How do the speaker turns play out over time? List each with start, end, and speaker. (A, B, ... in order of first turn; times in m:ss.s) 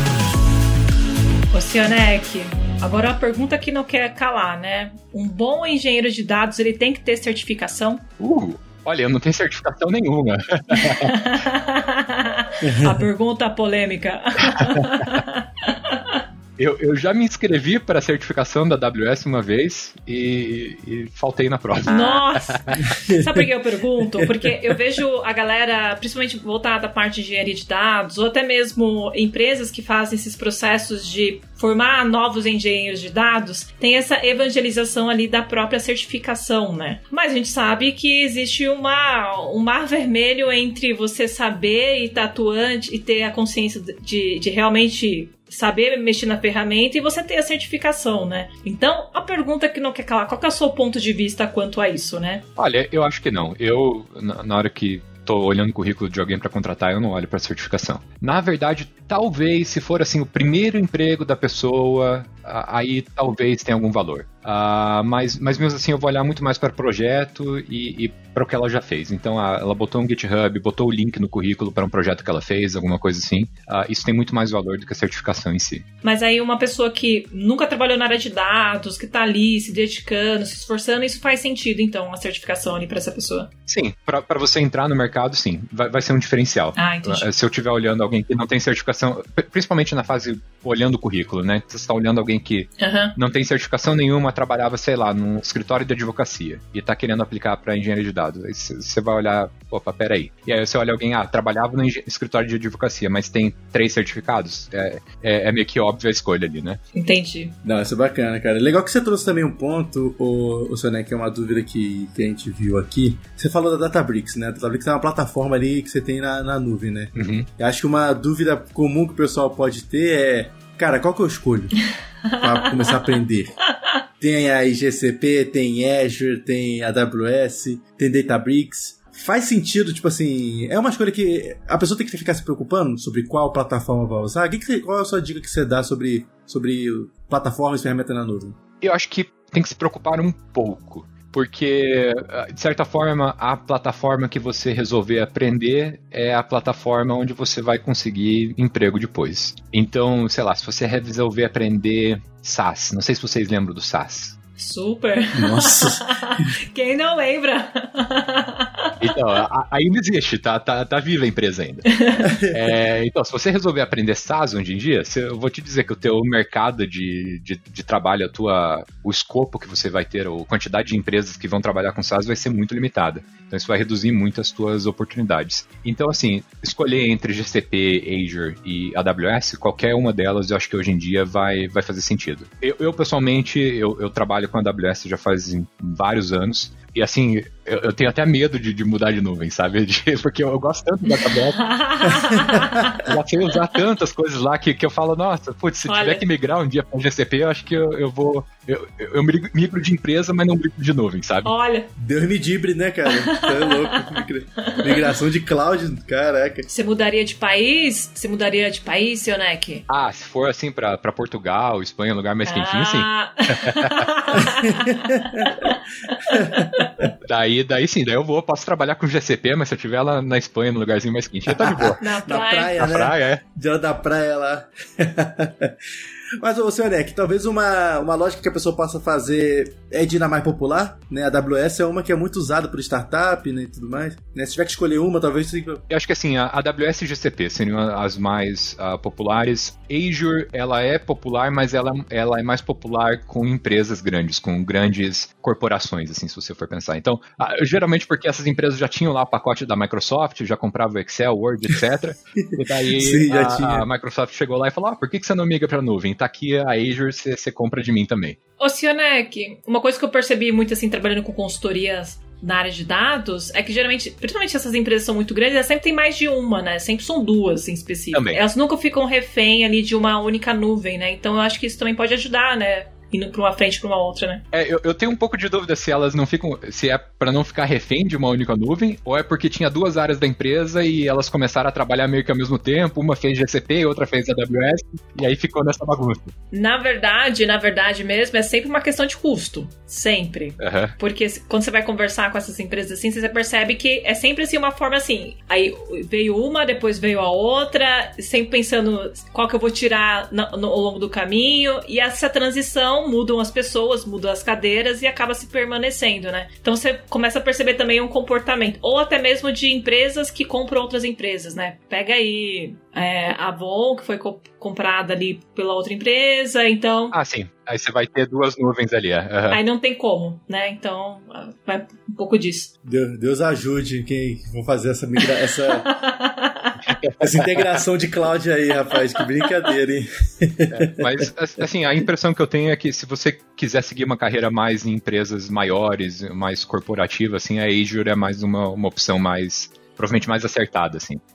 0:01.5-0:08.0 A
0:08.2-0:11.2 B
0:10.7-0:16.2 A
0:12.6-0:13.1 C
0:14.6-0:14.9 B
0:16.6-0:22.9 B
0:21.9-0:52.4 A
0:52.6-1:15.9 B
1:16.0-1:23.5 A
1:23.7-1:46.8 B
1:26.8-1:27.3 A
1:32.8-1:33.2 A
1:46.9-1:47.6 A
1:47.6-2:01.8 C
1:57.2-1:57.5 B
2:02.4-2:03.6 C
2:04.2-2:18.6 C
2:18.8-2:34.4 B
2:34.6-2:39.0 A
2:35.4-2:36.1 C
2:39.0-2:41.9 B
2:42.0-2:42.3 A
2:42.3-2:42.6 C
2:42.5-3:11.7 B
3:11.6-3:13.1 A
3:12.3-3:12.8 C
3:13.0-3:21.5 B
3:15.9-3:16.2 A
3:21.4-3:21.9 A
3:22.0-3:26.7 C
3:23.1-3:25.1 A
3:26.7-3:29.8 A
3:29.9-3:34.1 B
3:32.5-3:36.9 A
3:34.4-3:35.7 C
3:36.3-3:37.1 C
3:37.2-3:42.0 B
3:41.5-3:45.8 C
3:42.0-3:42.8 A
3:42.8-3:43.4 B
3:46.4-3:55.8 C
3:55.9-4:18.4 B
4:12.4-4:13.9 C
4:18.6-4:34.4 A
4:28.1-4:28.4 B
4:34.5-4:46.3 B
4:46.5-5:17.2 A
4:50.6-4:51.0 B
5:17.1-5:19.6 B
5:19.5-5:22.7 A
5:22.8-5:26.0 C
5:25.8-5:26.8 A
5:27.0-5:27.6 B
5:27.2-5:31.3 C
5:30.7-5:41.2 B